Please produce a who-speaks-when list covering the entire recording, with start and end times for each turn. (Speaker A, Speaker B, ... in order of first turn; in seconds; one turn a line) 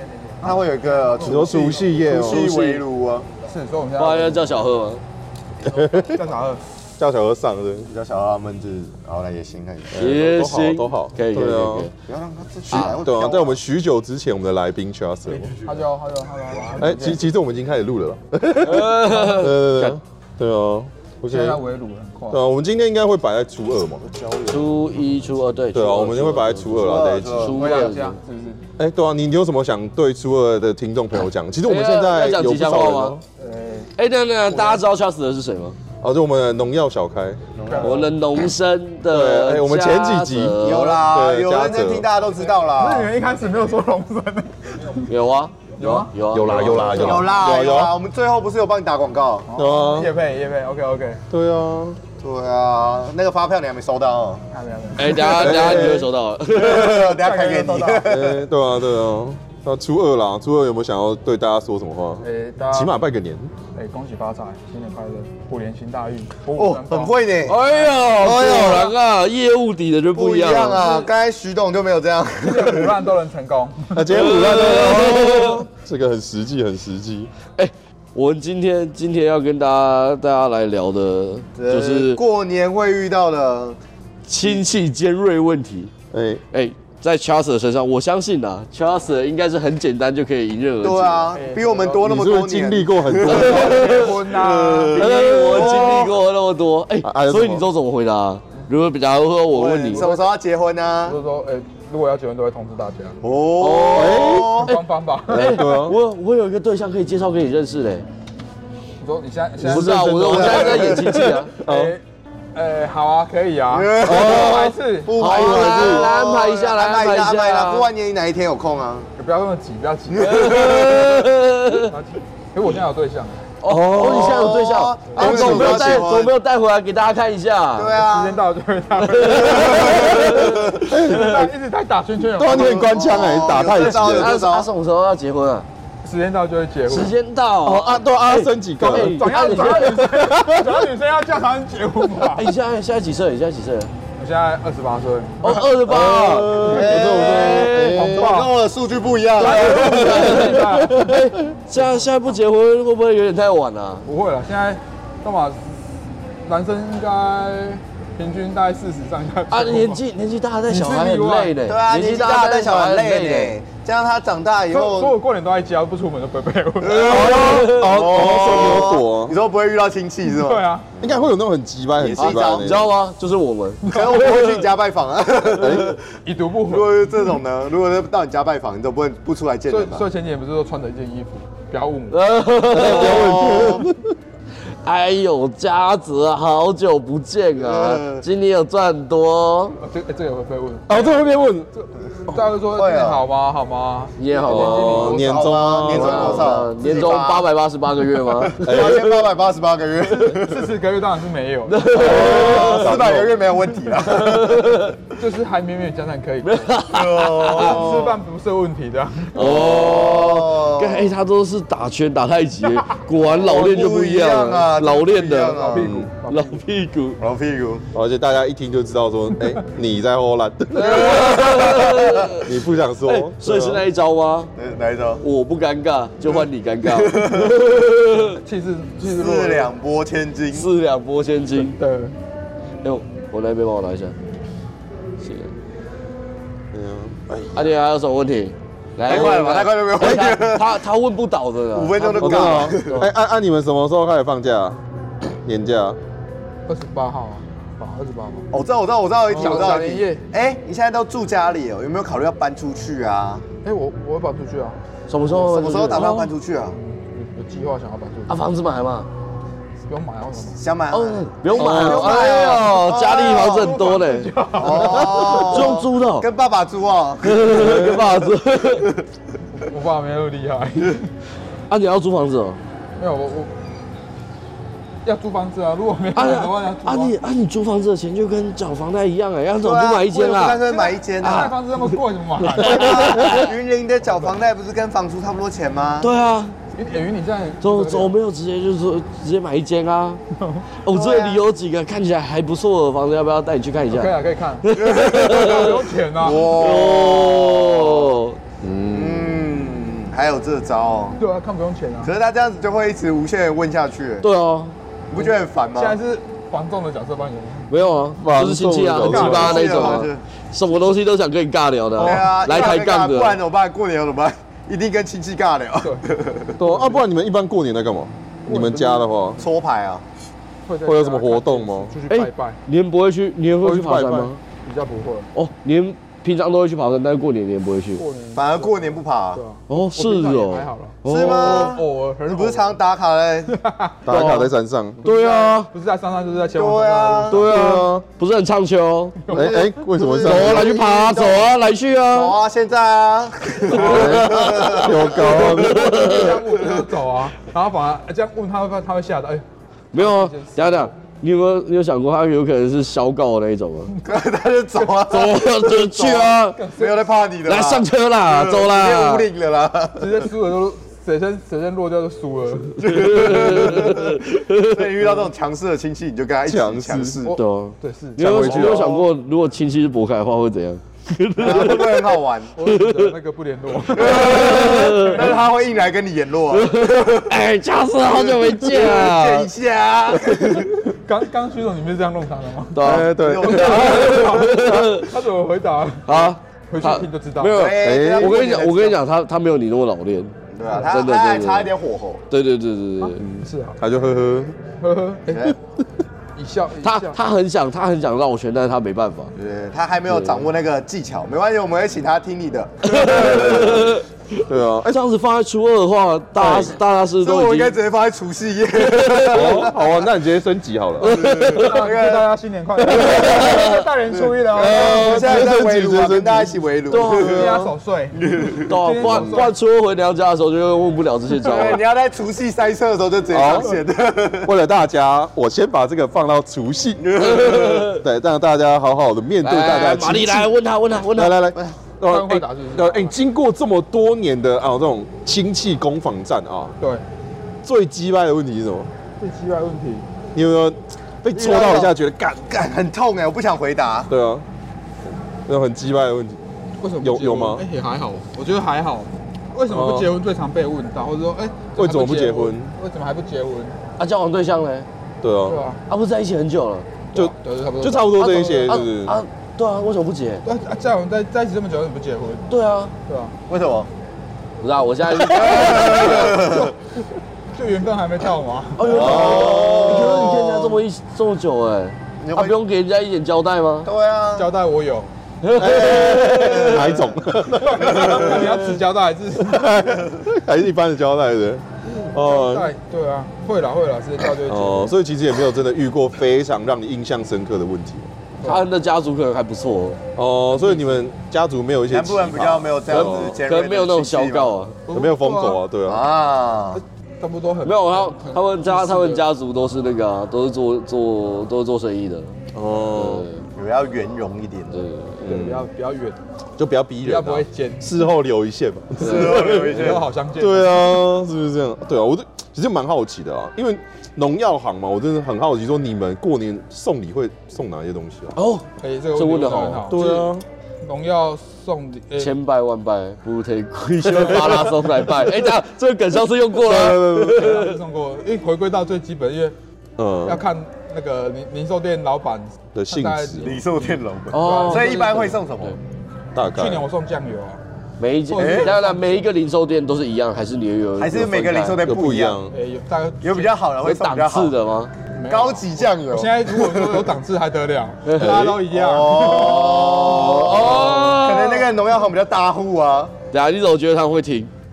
Speaker A: 0.3-2.8
Speaker B: 0.4-3.3
Speaker C: 1.2-2.7
Speaker D: 2.3-2.8
Speaker A: 3.4-4.6
Speaker D: 4.0-5.0
Speaker C: 5.6-6.2
Speaker A: 5.7-6.6
Speaker C: 7.0-7.9
Speaker B: 7.9-10.2
Speaker C: 9.9-11.9
Speaker D: 10.0-11.9
Speaker B: 12.1-13.6
Speaker C: 12.7-15.6
Speaker A: 15.3-17.2
Speaker C: 16.8-21.6
Speaker D: 18.6-20.0
Speaker A: 21.3-22.4
Speaker C: 22.3-24.0
Speaker B: 24.0-25.0
Speaker D: 24.5-26.8
Speaker C: 25.7-27.6
Speaker B: 26.7-27.9
Speaker D: 27.4-28.2
Speaker A: 27.6-28.6
Speaker C: 28.8-33.2
Speaker D: 31.6-33.2
Speaker A: 33.4-33.9
Speaker D: 34.0-35.8
Speaker A: 34.5-34.8
Speaker C: 36.0-37.4
Speaker B: 37.5-38.1
Speaker A: 37.7-38.1
Speaker D: 37.8-41.0
Speaker C: 39.0-42.1
Speaker B: 40.6-43.1
Speaker A: 42.4-45.1
Speaker D: 45.1-47.2
Speaker A: 45.8-47.3
Speaker C: 46.3-48.0
Speaker B: 46.9-49.5
Speaker A: 49.5-51.2
Speaker C: 49.5-50.1
Speaker C: 51.3-52.0
Speaker B: 52.2-54.4
Speaker A: 54.5-55.8
Speaker D: 55.0-57.1
Speaker C: 55.1-56.1
Speaker B: 56.5-58.4
Speaker A: 56.6-58.1
Speaker C: 58.0-63.5
Speaker A: 62.2-62.9
Speaker A: 63.7-68.1
Speaker B: 66.6-67.6
Speaker D: 67.5-71.0
Speaker B: 68.1-68.9
Speaker B: 70.1-73.0
Speaker A: 72.4-74.3
Speaker C: 73.9-77.3
Speaker D: 74.1-75.7
Speaker D: 77.6-82.2
Speaker B: 81.6-83.8
Speaker D: 84.3-85.9
Speaker C: 86.1-86.4
Speaker D: 86.5-91.3
Speaker B: 90.8-96.2
Speaker A: 91.3-92.1
Speaker C: 92.0-94.0
Speaker A: 93.2-95.3
Speaker D: 93.2-94.1
Speaker D: 94.9-100.1
Speaker C: 95.0-95.9
Speaker C: 97.0-97.6
Speaker B: 99.5-101.2
Speaker A: 99.9-100.3
Speaker A: 101.1-103.2
Speaker B: 103.2-104.8
Speaker D: 103.6-104.7
Speaker C: 103.9-104.7
Speaker A: 104.7-105.6
Speaker C: 105.3-106.0
Speaker D: 105.3-108.1
Speaker A: 109.0-111.0
Speaker C: 109.6-112.0
Speaker D: 109.6-111.5
Speaker B: 110.3-111.2
Speaker A: 111.6-112.0
Speaker A: 112.5-115.1
Speaker B: 113.7-119.1
Speaker C: 114.0-114.6
Speaker D: 114.0-117.9
Speaker C: 115.2-116.1
Speaker A: 119.2-120.5
Speaker B: 120.1-121.3
Speaker D: 120.2-121.9
Speaker A: 121.9-123.5
Speaker D: 123.6-128.0
Speaker C: 123.7-124.5
Speaker B: 123.9-126.3
Speaker A: 125.1-125.6
Speaker C: 125.2-126.1
Speaker B: 127.8-128.4
Speaker A: 128.0-134.0
Speaker D: 129.0-130.6
Speaker B: 129.3-130.9
Speaker C: 130.8-131.5
Speaker C: 132.4-134.4
Speaker B: 132.4-134.7
Speaker D: 134.0-135.7
Speaker A: 136.0-137.1
Speaker D: 136.9-140.0
Speaker C: 137.6-140.9
Speaker A: 138.8-142.5
Speaker D: 142.3-143.9
Speaker A: 144.2-145.7
Speaker D: 145.4-148.1
Speaker C: 145.8-148.4
Speaker A: 146.6-147.0
Speaker B: 146.6-150.4
Speaker A: 148.0-148.5
Speaker D: 149.4-154.0
Speaker A: 149.4-151.1
Speaker C: 149.8-151.3
Speaker A: 151.7-152.1
Speaker A: 154.1-160.0
Speaker D: 159.5-163.6
Speaker A: 160.7-161.6
Speaker B: 161.6-165.2
Speaker A: 164.7-167.5
Speaker B: 166.8-171.3
Speaker C: 167.0-169.3
Speaker D: 167.0-168.9
Speaker A: 170.2-170.9
Speaker C: 171.0-172.9
Speaker B: 172.0-172.8
Speaker D: 172.2-174.7
Speaker A: 173.8-174.3
Speaker B: 173.8-176.0
Speaker C: 175.6-176.0
Speaker A: 176.2-177.1
Speaker B: 176.7-180.1
Speaker A: 179.7-182.2
Speaker D: 182.1-183.8
Speaker C: 182.7-184.1
Speaker B: 182.9-183.9
Speaker D: 184.8-189.8
Speaker B: 187.6-188.2
Speaker A: 189.8-195.6
Speaker C: 190.9-191.7
Speaker B: 192.7-193.2
Speaker D: 194.2-195.2
Speaker C: 194.4-196.7
Speaker B: 194.9-197.5
Speaker D: 195.8-199.2
Speaker B: 198.4-200.7
Speaker C: 198.6-199.2
Speaker A: 200.1-202.1
Speaker D: 201.7-203.1
Speaker C: 201.9-203.4
Speaker B: 202.0-204.8
Speaker D: 204.0-205.0
Speaker A: 205.1-206.8
Speaker D: 206.4-207.9
Speaker B: 206.9-208.2
Speaker A: 207.5-209.4
Speaker C: 209.3-210.1
Speaker D: 209.4-217.2
Speaker B: 209.4-211.2
Speaker B: 213.2-216.1
Speaker A: 215.4-216.6
Speaker C: 215.8-216.1
Speaker B: 217.2-217.8
Speaker C: 217.9-221.6
Speaker D: 220.7-224.5
Speaker B: 220.9-222.3
Speaker C: 222.4-223.8
Speaker B: 224.6-225.2
Speaker D: 225.2-228.4
Speaker B: 226.8-227.6
Speaker A: 228.1-229.7
Speaker B: 229.0-230.7
Speaker D: 230.5-231.8
Speaker A: 231.6-232.2
Speaker D: 232.8-234.1
Speaker D: 235.2-235.5
Speaker C: 236.7-237.6
Speaker D: 237.5-243.1
Speaker B: 239.0-240.8
Speaker B: 241.7-243.1
Speaker C: 242.1-244.8
Speaker C: 245.4-246.0
Speaker A: 246.7-248.5
Speaker B: 248.5-253.4
Speaker A: 249.3-250.2
Speaker C: 249.3-249.6
Speaker A: 253.6-254.8
Speaker D: 255.1-256.3
Speaker B: 255.3-256.8
Speaker A: 256.7-258.4
Speaker D: 258.3-259.1
Speaker A: 259.9-260.6
Speaker B: 260.6-263.7
Speaker D: 260.9-266.2
Speaker C: 261.5-262.1
Speaker A: 261.6-262.6
Speaker A: 263.3-265.7
Speaker B: 264.6-268.0
Speaker D: 267.2-269.0
Speaker C: 267.5-268.1
Speaker A: 269.6-271.1
Speaker D: 271.7-272.6
Speaker A: 273.0-273.5
Speaker A: 275.1-277.2
Speaker D: 276.1-280.6
Speaker B: 279.6-281.6
Speaker A: 280.7-283.4
Speaker D: 281.2-281.6
Speaker D: 282.5-283.6
Speaker B: 282.6-286.1
Speaker D: 286.0-286.6
Speaker A: 286.8-288.1
Speaker D: 287.6-290.2
Speaker A: 290.4-290.8
Speaker D: 290.8-298.4
Speaker B: 290.9-291.4
Speaker A: 293.9-296.5
Speaker B: 294.8-298.2
Speaker C: 298.6-299.4
Speaker B: 298.9-301.2
Speaker A: 301.2-302.1
Speaker B: 302.0-304.3
Speaker D: 304.2-304.8
Speaker B: 305.1-306.0
Speaker A: 305.2-307.8
Speaker D: 307.7-313.4
Speaker C: 308.2-309.6
Speaker A: 309.0-310.1
Speaker B: 309.1-310.2
Speaker B: 312.0-316.6
Speaker A: 312.0-312.4
Speaker C: 316.6-319.4
Speaker A: 316.6-317.0
Speaker A: 318.5-319.1
Speaker B: 319.4-320.0
Speaker A: 320.6-322.6
Speaker C: 320.9-322.0
Speaker D: 322.1-324.4
Speaker C: 323.6-324.3
Speaker A: 324.6-325.3
Speaker D: 325.4-328.0
Speaker A: 328.0-332.8
Speaker B: 328.3-329.4
Speaker D: 329.7-331.8
Speaker B: 331.1-333.6
Speaker A: 333.5-334.0
Speaker C: 334.1-335.0
Speaker D: 334.1-334.5
Speaker A: 335.0-337.5
Speaker D: 335.0-335.7
Speaker B: 336.5-337.5
Speaker D: 337.3-339.2
Speaker C: 337.3-338.1
Speaker A: 339.2-339.8
Speaker C: 339.3-341.2
Speaker B: 339.4-341.5
Speaker D: 340.2-342.4
Speaker B: 342.1-345.6
Speaker D: 343.7-346.4
Speaker A: 343.7-344.2
Speaker C: 343.8-346.0
Speaker A: 345.6-350.9
Speaker D: 349.9-353.9
Speaker B: 354.0-360.3
Speaker D: 355.1-356.6
Speaker A: 356.5-357.1
Speaker D: 357.4-359.3
Speaker A: 360.0-363.1
Speaker B: 362.8-367.4
Speaker D: 362.9-365.1
Speaker C: 366.5-367.2
Speaker A: 367.2-368.7
Speaker D: 367.4-373.1
Speaker C: 368.2-369.0
Speaker B: 368.4-369.1
Speaker B: 371.4-372.5
Speaker A: 372.6-375.4
Speaker B: 373.9-377.4
Speaker D: 374.0-375.3
Speaker D: 376.5-379.5
Speaker B: 378.0-380.9
Speaker A: 380.9-387.7
Speaker D: 382.8-385.1
Speaker C: 382.8-384.8
Speaker B: 382.9-384.2
Speaker D: 386.1-391.7
Speaker B: 387.5-389.0
Speaker C: 387.8-388.4
Speaker B: 390.6-392.2
Speaker D: 392.3-393.2
Speaker A: 393.0-393.8
Speaker C: 393.2-394.6
Speaker A: 394.8-395.6
Speaker B: 395.3-395.6
Speaker A: 396.4-397.2
Speaker D: 396.8-399.3
Speaker B: 399.4-404.0
Speaker D: 400.1-400.5
Speaker D: 402.8-407.8
Speaker C: 403.1-403.9
Speaker C: 404.5-405.0
Speaker C: 406.4-406.8
Speaker B: 407.2-410.0
Speaker D: 408.8-409.7
Speaker C: 409.3-411.2
Speaker D: 411.0-411.9
Speaker B: 411.0-412.3
Speaker A: 411.5-415.6
Speaker D: 412.9-413.9
Speaker B: 413.2-413.5
Speaker B: 414.1-417.6
Speaker C: 414.6-417.6
Speaker D: 416.9-417.5
Speaker A: 417.1-419.6
Speaker B: 418.2-418.7
Speaker D: 418.6-421.8
Speaker C: 419.0-419.4
Speaker B: 421.4-424.5
Speaker C: 423.3-423.8
Speaker C: 424.4-427.1
Speaker B: 427.0-428.0
Speaker D: 427.2-428.0
Speaker C: 427.9-430.6
Speaker D: 429.4-431.4
Speaker C: 431.1-436.8
Speaker A: 432.1-433.1
Speaker C: 437.6-438.9
Speaker A: 439.2-440.1
Speaker C: 440.4-442.5
Speaker B: 441.3-441.9
Speaker B: 442.5-444.1
Speaker C: 444.1-444.4
Speaker C: 445.5-446.4
Speaker A: 446.8-453.8
Speaker C: 447.0-447.6
Speaker C: 449.7-450.2
Speaker C: 451.8-452.7
Speaker D: 454.0-454.9
Speaker C: 455.2-455.6
Speaker A: 455.5-455.8
Speaker D: 455.9-456.9
Speaker A: 457.1-458.8
Speaker C: 457.1-459.2
Speaker D: 458.2-460.4
Speaker A: 460.4-462.5
Speaker D: 462.5-462.9
Speaker A: 463.1-463.4
Speaker B: 463.5-463.9
Speaker D: 464.6-466.6
Speaker B: 465.2-466.7
Speaker A: 465.5-466.6
Speaker A: 467.5-469.3
Speaker D: 468.8-473.9
Speaker C: 468.9-470.3
Speaker B: 468.9-470.8
Speaker B: 472.2-472.6
Speaker B: 473.8-474.5
Speaker A: 474.4-475.1
Speaker D: 475.4-477.0
Speaker C: 475.6-478.7
Speaker B: 475.9-477.1
Speaker A: 477.5-479.8
Speaker C: 479.4-482.7
Speaker A: 482.2-484.9
Speaker C: 484.5-488.1
Speaker A: 488.4-488.6
Speaker D: 488.4-490.0
Speaker C: 490.2-493.4
Speaker A: 490.5-491.1
Speaker B: 491.9-494.6
Speaker D: 492.9-494.8
Speaker A: 494.9-495.6
Speaker C: 494.9-496.0
Speaker B: 495.9-496.8
Speaker A: 496.7-499.2
Speaker D: 497.6-502.3
Speaker C: 502.5-503.3
Speaker D: 502.9-503.4
Speaker B: 503.6-504.9
Speaker D: 504.7-505.2
Speaker C: 505.2-505.7
Speaker A: 505.2-506.2
Speaker C: 506.6-518.4
Speaker A: 507.0-508.1
Speaker B: 509.0-510.1
Speaker D: 509.0-509.6
Speaker A: 509.4-511.1
Speaker D: 518.4-519.9
Speaker A: 518.8-520.3
Speaker C: 519.9-520.5
Speaker A: 520.8-522.4
Speaker D: 522.2-527.8
Speaker C: 524.1-525.4
Speaker A: 524.3-524.6
Speaker C: 526.6-527.6
Speaker A: 527.3-529.5
Speaker C: 530.0-530.4
Speaker A: 530.2-535.3
Speaker C: 532.8-533.5
Speaker B: 533.4-535.8
Speaker D: 534.3-535.8
Speaker C: 536.4-536.9
Speaker A: 536.5-537.6
Speaker D: 538.0-541.9
Speaker A: 538.3-539.3
Speaker B: 538.4-538.7
Speaker B: 541.0-542.4
Speaker C: 541.8-542.5
Speaker A: 542.5-543.5
Speaker B: 543.2-544.6
Speaker D: 543.8-544.9
Speaker A: 545.1-550.4
Speaker B: 545.3-547.1
Speaker D: 548.1-548.4
Speaker C: 548.2-548.7
Speaker B: 548.7-553.1
Speaker D: 549.4-551.7
Speaker C: 550.6-551.1
Speaker D: 553.3-554.5